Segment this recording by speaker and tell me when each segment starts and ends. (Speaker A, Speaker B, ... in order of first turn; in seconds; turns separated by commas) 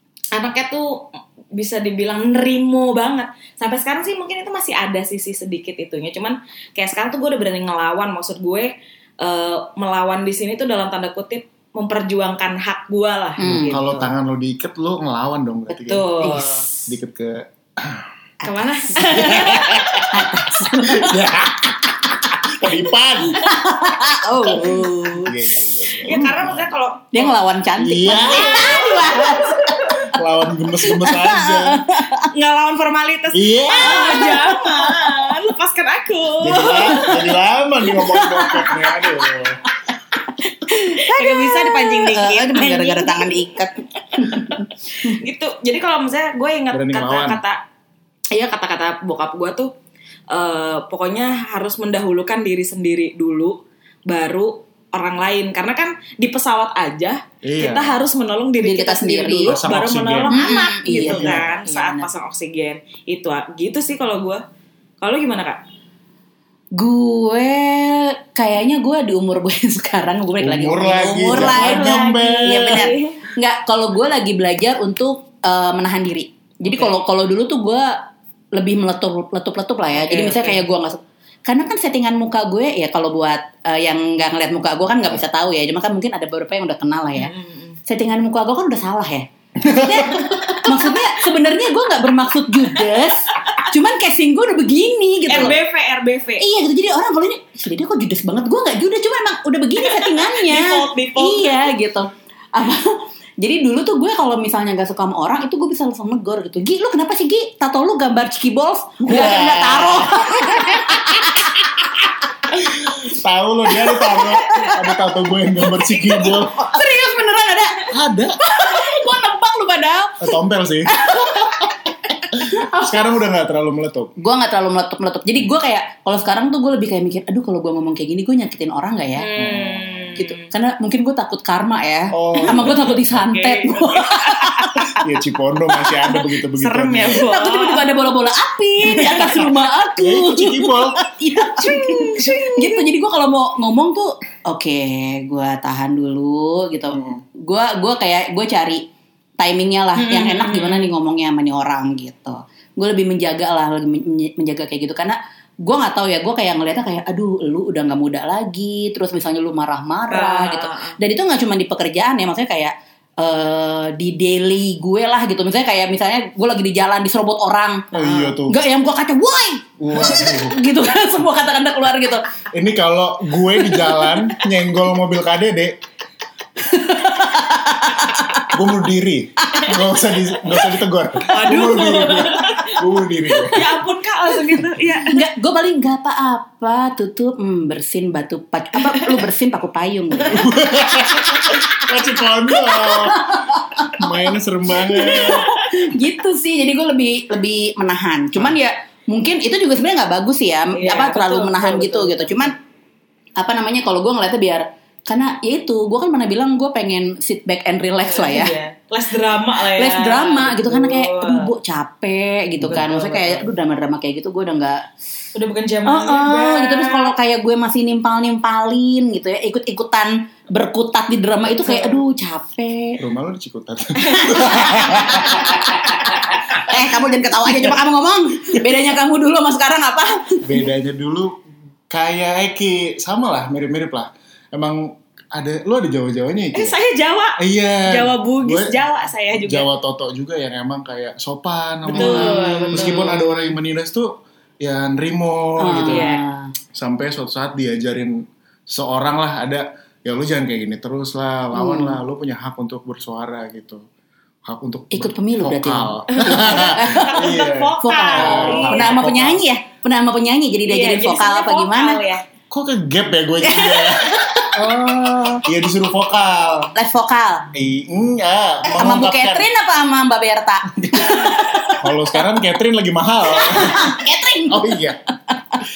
Speaker A: 0.3-0.9, Speaker A: 1.5-8.7, Speaker A: 9.2-14.2, Speaker B: 13.4-13.8, Speaker C: 13.7-16.1, Speaker A: 15.7-16.7, Speaker B: 16.2-16.9, Speaker C: 16.9-18.1, Speaker B: 18.4-21.5, Speaker A: 18.4-19.9, Speaker C: 19.1-23.5, Speaker B: 23.3-26.2, Speaker A: 24.5-25.2, Speaker C: 25.2-26.7, Speaker A: 26.0-27.4, Speaker B: 27.1-30.1, Speaker C: 27.8-28.8, Speaker A: 28.1-30.0, Speaker C: 30.1-31.8, Speaker B: 30.8-32.3, Speaker A: 32.3-37.4, Speaker C: 33.3-34.2, Speaker B: 33.7-35.3, Speaker C: 36.4-39.6, Speaker B: 36.7-37.1, Speaker B: 37.9-39.1, Speaker B: 40.4-45.2, Speaker A: 41.0-47.6, Speaker C: 46.7-47.4, Speaker A: 48.3-49.7, Speaker A: 50.3-53.5, Speaker A: 54.1-64.4, Speaker C: 57.4-58.0, Speaker B: 58.6-59.6, Speaker C: 59.4-61.5, Speaker B: 60.3-62.1, Speaker A: 65.0-65.6, Speaker B: 66.8-77.9, Speaker C: 70.4-72.9, Speaker A: 71.2-73.2, Speaker A: 76.7-76.9, Speaker B: 78.5-87.3, Speaker A: 79.9-80.7, Speaker A: 87.2-87.8, Speaker B: 87.9-95.6, Speaker C: 89.6-90.3, Speaker A: 95.3-96.4, Speaker B: 96.4-111.5, Speaker A: 99.8-101.7, Speaker C: 109.0-111.4, Speaker C: 112.5-116.7, Speaker B: 113.7-121.8, Speaker C: 117.9-118.3, Speaker C: 120.2-120.9, Speaker C: 122.4-124.1, Speaker B: 122.7-123.0, Speaker B: 124.2-129.3, Speaker A: 129.2-130.5, Speaker C: 129.4-130.1, Speaker B: 130.2-135.0, Speaker C: 132.1-133.2, Speaker A: 132.4-135.0, Speaker C: 135.0-137.3, Speaker A: 136.6-137.9, Speaker B: 137.2-148.8, Speaker A: 138.9-139.5, Speaker C: 140.0-141.0, Speaker A: 141.6-142.9, Speaker C: 146.9-147.2, Speaker B: 149.4-167.9, Speaker A: 150.0-150.9, Speaker A: 160.1-161.0, Speaker C: 167.9-168.6, Speaker A: 167.9-168.4, Speaker B: 168.5-172.2, Speaker C: 169.8-170.6, Speaker C: 172.5-175.8, Speaker B: 173.6-174.3, Speaker B: 176.6-178.6, Speaker C: 178.5-183.7, Speaker B: 179.5-179.8, Speaker A: 181.3-182.8, Speaker A: 183.5-185.2, Speaker B: 185.1-190.6, Speaker A: 188.8-189.2, Speaker C: 190.3-193.4, Speaker B: 192.5-193.9, Speaker C: 193.9-195.5, Speaker B: 194.8-202.6, Speaker A: 195.0-195.5, Speaker A: 200.7-202.5, Speaker B: 203.4-208.6, Speaker A: 208.0-211.5, Speaker B: 209.6-214.8, Speaker C: 212.6-212.9, Speaker A: 212.7-213.5, Speaker A: 215.3-217.1, Speaker B: 215.9-223.0, Speaker A: 221.6-222.0, Speaker C: 223.0-225.8, Speaker A: 224.2-225.6, Speaker B: 224.2-230.7, Speaker C: 230.4-231.4, Speaker C: 231.9-236.8, Speaker A: 236.5-239.7, Speaker C: 237.4-238.8, Speaker C: 239.4-246.1, Speaker A: 241.9-243.2, Speaker B: 241.9-243.5, Speaker B: 245.6-246.5, Speaker A: 245.8-246.2, Speaker C: 246.8-248.2, Speaker C: 248.7-253.8, Speaker B: 251.5-252.0, Speaker C: 254.5-259.4, Speaker B: 254.9-262.0, Speaker A: 256.1-259.1, Speaker A: 260.7-262.2, Speaker C: 262.5-266.7, Speaker B: 263.4-265.4, Speaker B: 266.8-267.5, Speaker C: 267.5-269.5, Speaker B: 268.7-272.3, Speaker C: 271.8-275.0, Speaker B: 273.3-274.8